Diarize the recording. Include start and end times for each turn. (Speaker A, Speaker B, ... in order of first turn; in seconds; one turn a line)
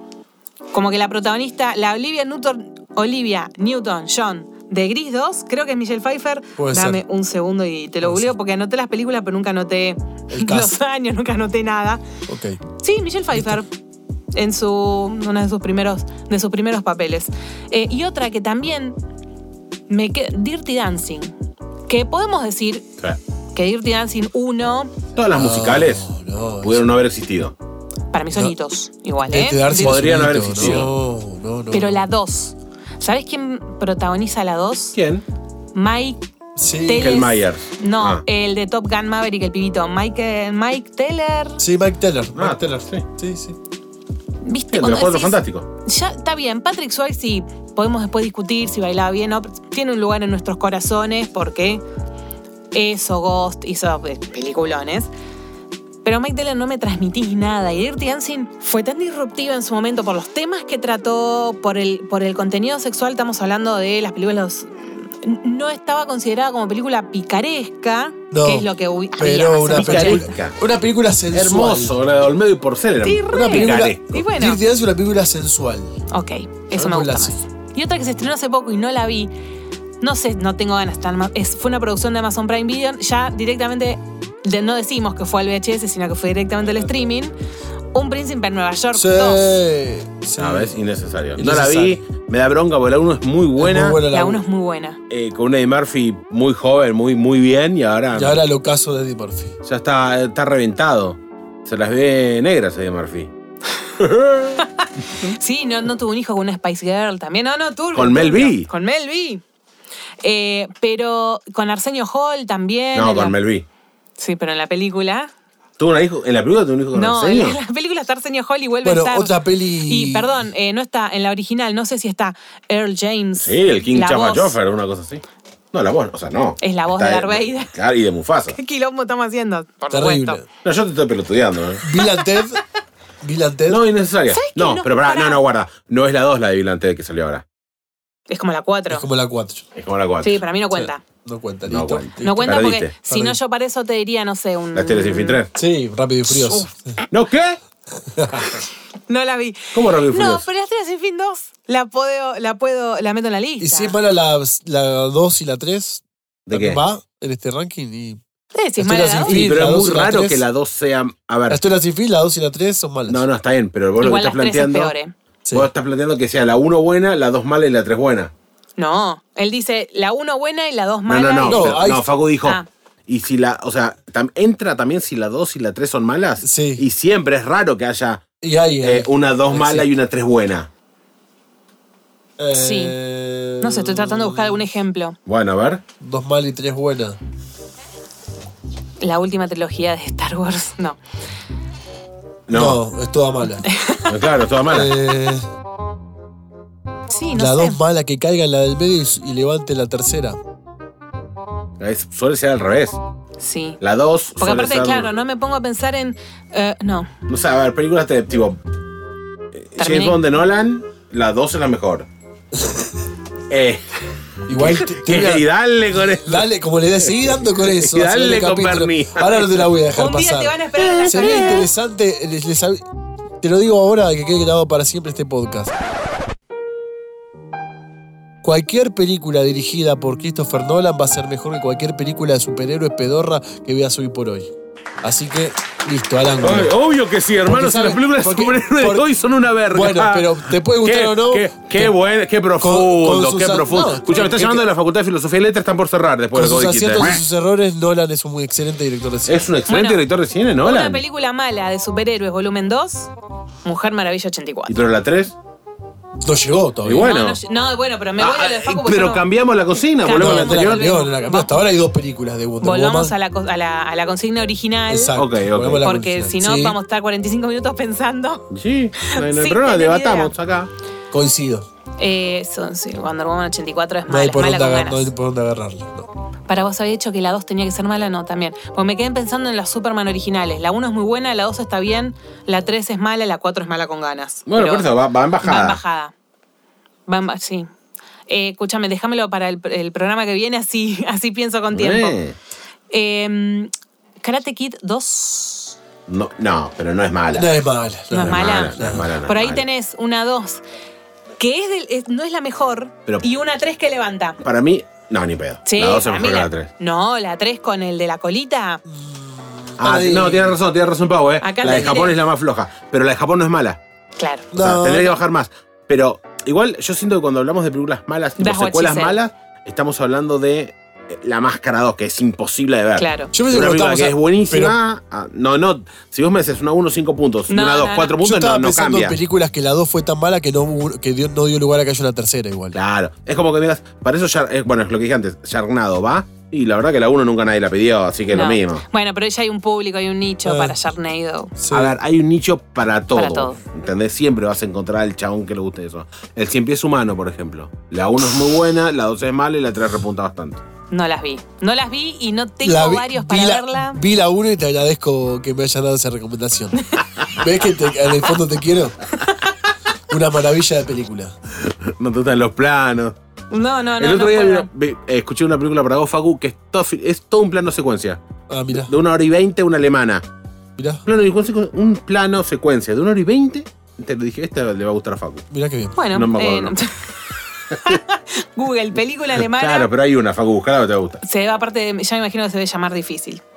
Speaker A: 0.7-12.0
Speaker B: 6.6-7.0
Speaker B: 8.0-8.3
Speaker B: 10.3-10.8
Speaker B: 12.3-12.6
Speaker A: 12.8-13.7
Speaker B: 13.3-13.6
Speaker A: 14.3-19.0
Speaker A: 19.9-21.3
Speaker A: 21.9-22.9
Speaker A: 23.5-24.9
Speaker C: 25.2-26.1
Speaker B: 25.4-26.9
Speaker C: 26.6-27.6
Speaker A: 28.1-30.1
Speaker B: 29.2-32.1
Speaker C: 29.7-30.9
Speaker A: 31.7-35.0
Speaker C: 35.0-35.2
Speaker A: 35.8-36.2
Speaker B: 36.6-37.2
Speaker A: 36.8-41.6
Speaker C: 37.0-38.2
Speaker B: 41.6-43.6
Speaker C: 42.4-43.0
Speaker A: 44.4-51.8
Speaker C: 44.7-45.7
Speaker A: 52.7-55.1
Speaker A: 56.0-70.3
Speaker B: 68.3-72.0
Speaker C: 69.7-70.6
Speaker C: 71.3-74.0
Speaker A: 73.0-74.6
Speaker B: 73.3-76.0
Speaker A: 76.1-79.3
Speaker B: 76.7-77.4
Speaker A: 80.0-87.3
Speaker A: 87.9-89.5
Speaker B: 88.9-90.8
Speaker C: 90.4-94.0
Speaker B: 91.4-92.0
Speaker B: 93.6-94.5
Speaker A: 94.1-95.0
Speaker C: 95.1-98.4
Speaker B: 98.1-99.6
Speaker C: 99.6-103.3
Speaker C: 104.0-104.7
Speaker A: 104.6-109.4
Speaker C: 107.9-108.7
Speaker A: 110.2-113.3
Speaker C: 112.9-113.7
Speaker A: 114.2-115.3
Speaker C: 115.8-117.6
Speaker A: 116.9-124.6
Speaker B: 118.8-120.5
Speaker C: 123.4-128.6
Speaker A: 126.6-127.7
Speaker A: 128.5-130.4
Speaker B: 129.9-130.5
Speaker C: 130.6-131.8
Speaker B: 131.8-132.6
Speaker B: 133.2-133.8
Speaker C: 133.7-137.4
Speaker A: 134.3-135.4
Speaker A: 138.3-139.1
Speaker B: 138.9-139.7
Speaker C: 139.8-140.4
Speaker A: 140.2-141.0
Speaker B: 140.8-143.4
Speaker C: 141.7-142.9
Speaker A: 142.2-145.4
Speaker C: 144.8-145.5
Speaker B: 145.5-147.0
Speaker A: 146.4-146.7
Speaker C: 147.1-147.6
Speaker B: 148.0-148.6
Speaker A: 149.1-154.0
Speaker C: 149.7-150.5
Speaker B: 153.6-158.2
Speaker C: 156.5-156.8
Speaker A: 158.5-159.5
Speaker B: 158.8-160.4
Speaker C: 159.2-161.6
Speaker B: 161.5-163.2
Speaker C: 163.1-164.9
Speaker A: 164.0-165.1
Speaker C: 165.5-168.3
Speaker A: 168.8-171.8
Speaker C: 171.1-178.2
Speaker B: 171.4-172.1
Speaker B: 176.4-176.8
Speaker B: 178.4-179.9
Speaker C: 178.8-180.7
Speaker B: 182.4-184.7
Speaker A: 182.5-183.0
Speaker A: 183.6-185.2
Speaker C: 185.3-185.8
Speaker B: 186.0-187.2
Speaker A: 189.0-191.0
Speaker C: 192.5-192.8
Speaker B: 192.5-193.7
Speaker A: 193.6-194.1
Speaker C: 194.1-194.9
Speaker B: 194.7-195.5
Speaker A: 197.1-197.8
Speaker B: 197.3-200.4
Speaker C: 201.8-203.0
Speaker A: 203.4-203.8
Speaker C: 203.8-205.1
Speaker A: 204.4-207.1
Speaker C: 207.3-208.6
Speaker C: 209.6-212.1
Speaker A: 209.8-210.2
Speaker B: 212.6-212.9
Speaker C: 213.5-213.8
Speaker C: 214.5-216.5
Speaker B: 214.5-215.5
Speaker B: 216.2-222.8
Speaker C: 217.1-219.7
Speaker A: 219.9-221.7
Speaker C: 220.8-221.7
Speaker B: 223.4-225.7
Speaker B: 228.4-236.7
Speaker C: 236.4-247.2
Speaker B: 237.5-239.1
Speaker B: 239.7-241.9
Speaker B: 242.6-244.6
Speaker B: 246.3-249.5
Speaker C: 249.3-251.0
Speaker A: 249.7-250.0
Speaker A: 250.6-253.1
Speaker A: 253.6-254.8
Speaker C: 254.7-255.4
Speaker B: 256.2-257.1
Speaker C: 256.8-257.4
Speaker A: 256.9-259.2
Speaker C: 258.2-261.0
Speaker A: 260.0-261.5
Speaker B: 260.1-263.2
Speaker A: 262.6-265.2
Speaker B: 264.9-266.8
Speaker C: 265.1-265.9
Speaker A: 265.8-270.3
Speaker C: 268.5-270.7
Speaker B: 271.1-271.7
Speaker A: 272.0-275.1
Speaker B: 274.1-276.1
Speaker A: 276.5-284.9
Speaker C: 284.5-285.8
Speaker A: 285.4-286.1
Speaker A: 287.1-287.7
Speaker A: 288.3-292.2
Speaker C: 291.7-292.4
Speaker A: 292.9-293.7
Speaker A: 294.2-295.8
Speaker C: 296.1-297.5
Speaker B: 297.3-299.1
Speaker A: 298.1-300.6
Speaker C: 298.2-299.6
Speaker A: 301.4-304.4
Speaker C: 304.4-306.7
Speaker A: 305.7-308.8
Speaker B: 308.9-310.6
Speaker C: 309.8-313.8
Speaker A: 311.4-312.2
Speaker A: 314.2-314.5
Speaker B: 314.5-315.2
Speaker C: 314.6-329.2
Speaker A: 318.4-319.2
Speaker A: 323.0-323.3
Speaker B: 323.3-324.8
Speaker A: 327.5-328.2
Speaker B: 328.2-332.8
Speaker C: 332.7-338.9
Speaker A: 338.3-341.5
Speaker B: 340.4-340.8
Speaker B: 341.6-342.0
Speaker C: 341.7-350.6
Speaker A: 343.1-343.6
Speaker A: 350.9-354.0
Speaker B: 352.6-359.0
Speaker A: 359.2-359.5
Speaker B: 360.1-361.4
Speaker C: 361.6-363.1
Speaker A: 363.5-364.7
Speaker C: 364.0-368.2
Speaker B: 368.5-368.9
Speaker C: 368.7-370.2
Speaker B: 370.8-371.0
Speaker C: 371.1-375.5
Speaker B: 375.5-376.0
Speaker A: 376.0-379.9
Speaker C: 376.1-376.8
Speaker C: 379.4-381.2
Speaker A: 381.2-383.4